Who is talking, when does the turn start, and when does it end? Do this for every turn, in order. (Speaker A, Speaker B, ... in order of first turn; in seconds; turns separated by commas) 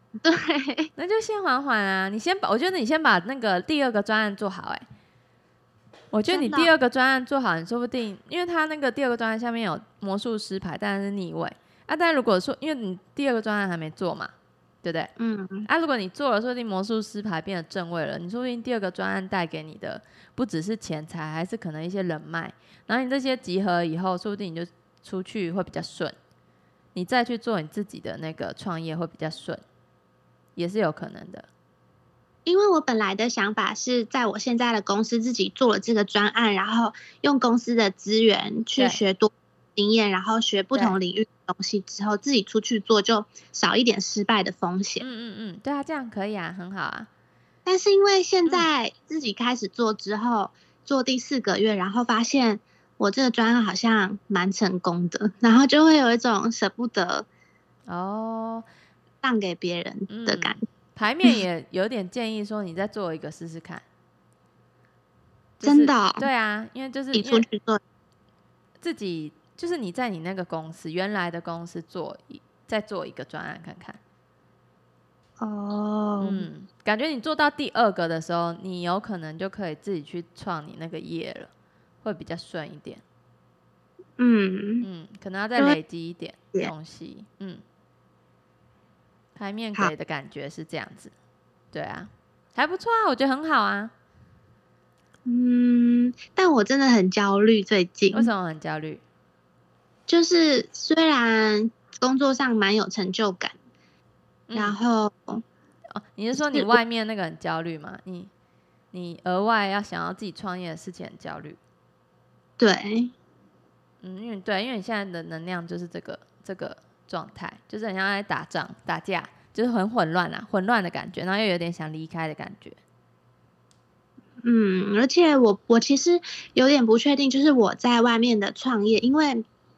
Speaker A: 0.2-0.9, Speaker B: 1.0-4.8, Speaker B: 6.1-14.3, Speaker A: 6.3-6.7, Speaker B: 14.8-15.1, Speaker A: 15.2-15.7, Speaker B: 15.7-26.1, Speaker B: 26.9-29.6, Speaker B: 30.6-31.5, Speaker A: 32.5-45.0, Speaker B: 45.0-47.1, Speaker A: 47.6-57.2, Speaker B: 57.9-58.6, Speaker A: 59.2-60.6, Speaker B: 60.1-63.8, Speaker B: 65.6-67.4, Speaker A: 65.6-66.3, Speaker A: 67.1-67.8, Speaker B: 68.8-74.0, Speaker A: 75.4-76.5, Speaker B: 76.2-81.5, Speaker B: 82.0-83.0, Speaker A: 84.2-84.8, Speaker B: 84.8-87.6, Speaker B: 89.3-91.1, Speaker B: 91.7-93.9, Speaker A: 95.2-98.3, Speaker B: 98.1-99.0, Speaker A: 100.1-103.5, Speaker B: 104.5-104.8, Speaker A: 104.5-105.4, Speaker B: 105.9-108.3, Speaker A: 106.3-106.8, Speaker B: 108.9-111.6, Speaker A: 112.6-113.1, Speaker B: 114.0-122.8, Speaker A: 124.4-129.4